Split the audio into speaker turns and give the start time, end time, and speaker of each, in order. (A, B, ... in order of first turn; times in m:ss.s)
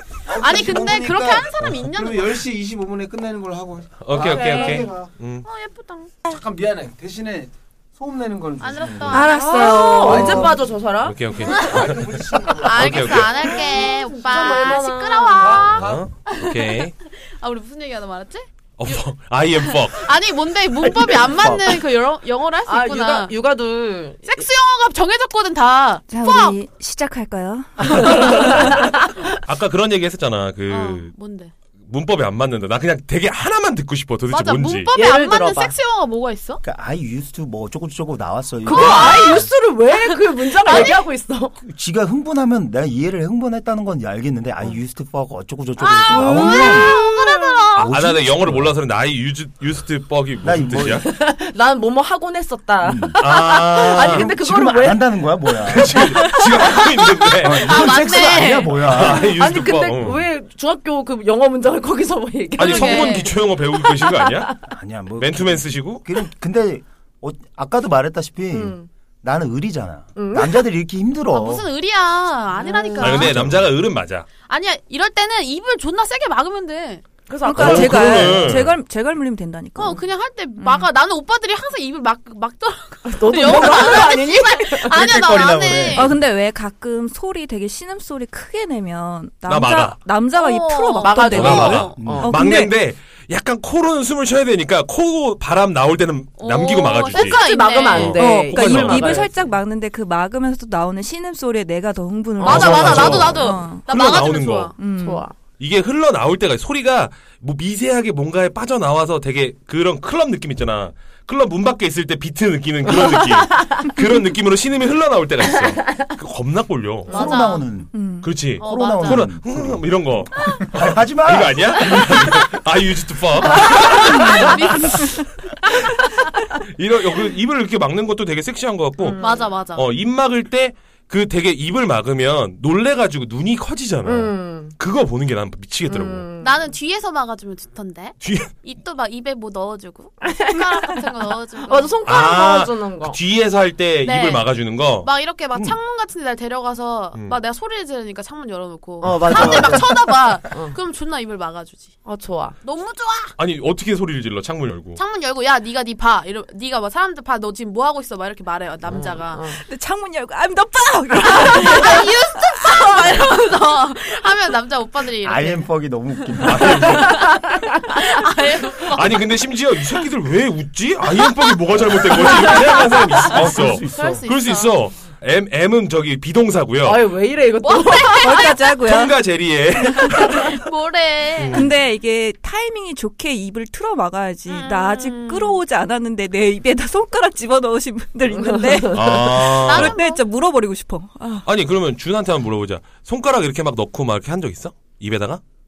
0:00.2-0:05.1 A
0:00.4-0:02.4 B
0:04.0-0:05.4 C
0:04.2-0:04.6 D
0:04.3-0:04.8 B
0:05.4-0:06.2 B
0:06.2-0:09.3 A
0:08.6-0:09.9 B
0:09.1-0:10.6 E
0:09.1-0:11.2 D
0:09.9-0:10.7 A
0:11.0-0:13.5 C
0:11.4-0:11.8 B
0:11.7-0:13.5 A
0:12.5-0:19.0 B
0:13.6-0:15.7 D
0:15.4-0:16.0 A
0:15.6-0:17.0 C
0:18.8-0:20.1 C
0:19.6-0:23.3 B
0:21.0-0:21.8 F
0:22.6-0:24.5 D
0:24.2-0:26.6 B
0:26.1-0:29.0 E
0:27.8-0:29.0 D
0:28.0-0:28.3 C
0:29.0-0:31.1 C
0:30.7-0:31.5 B
0:31.8-0:34.9 C
0:34.3-0:36.6 B
0:34.9-0:35.7 D
0:36.6-0:39.5 F
0:38.6-0:41.6 D
0:38.8-0:39.2 C
0:39.0-0:39.4 B
0:40.6-0:41.0 B
0:41.6-0:47.0 F
0:45.8-0:47.7 B
0:46.0-0:47.9 D
0:47.7-0:51.0 C
0:47.8-0:48.8 F
0:50.4-0:51.1 F
0:50.9-0:55.8 D
0:52.8-0:56.2 F
0:53.2-0:54.3 C
0:55.6-0:58.1 C
0:57.4-0:59.4 F
0:57.5-0:59.0 B
0:58.7-1:00.3 C
0:59.0-1:03.2 D
1:02.6-1:04.6 C
1:02.6-1:03.3 B
1:03.7-1:04.5 D
1:04.7-1:11.7 F
1:05.2-1:06.0 C
1:08.5-1:08.9 D
1:10.2-1:10.7 D
1:11.3-1:13.3 B
1:12.6-1:13.3 D
1:13.0-1:14.3 C
1:13.0-1:13.7 F
1:14.4-1:17.0 B
1:17.3-1:18.5 D
1:17.4-1:20.0 E
1:17.5-1:18.8 C
1:19.8-1:26.1 B
1:20.6-1:20.9 E
1:23.1-1:25.0 D
1:24.9-1:26.2 F
1:25.9-1:32.8 E
1:29.5-1:30.0 C
1:30.3-1:32.0 B
1:31.0-1:32.3 D
1:31.3-1:39.3 C
1:32.0-1:32.3 F
1:36.4-1:38.2 B
1:37.1-1:39.4 D
1:38.2-1:43.9 E
1:42.4-1:44.8 B
1:42.4-1:44.7 C
1:42.7-1:43.2 D
1:44.7-1:45.2 E
1:45.0-1:45.3 D
1:45.6-1:57.3 C
1:57.1-1:58.0 F
1:57.1-1:57.7 B
1:57.9-1:58.5 E
1:58.2-2:05.0 C
1:58.5-2:02.2 F
1:58.6-1:59.3 B
2:03.9-2:05.2 E
2:04.3-2:05.0 B
2:06.4-2:16.3 C
2:09.0-2:09.5 D
2:09.2-2:09.9 B
2:14.0-2:14.7 D
2:15.9-2:16.5 D
2:16.4-2:22.0 B
2:18.2-2:18.5 C
2:20.3-2:20.9 D
2:21.6-2:23.2 D
2:22.0-2:25.8 C
2:24.0-2:24.5 B
2:25.0-2:31.9 B
2:29.0-2:30.1 F
2:29.0-2:29.6 C
2:32.0-2:32.6 D
2:32.6-2:33.3 B
2:33.4-2:35.0 C
2:35.0-2:39.4 B
2:38.8-2:39.6 D
2:39.4-2:43.2 E
2:41.4-2:49.2 B
2:45.2-2:47.0 F
2:46.4-2:47.3 C
2:48.9-2:57.1 C
2:52.4-2:54.2 F
2:53.8-2:54.7 B
2:56.8-2:58.5 D
2:57.6-2:58.7 B
2:58.2-2:59.2 E
2:58.6-3:00.6 C
3:00.1-3:01.7 B
3:01.4-3:01.7 C
3:01.5-3:11.4 E
3:04.5-3:05.6 B
3:08.4-3:09.1 D
3:08.9-3:10.0 C
3:09.6-3:10.2 B
3:11.4-3:15.4 C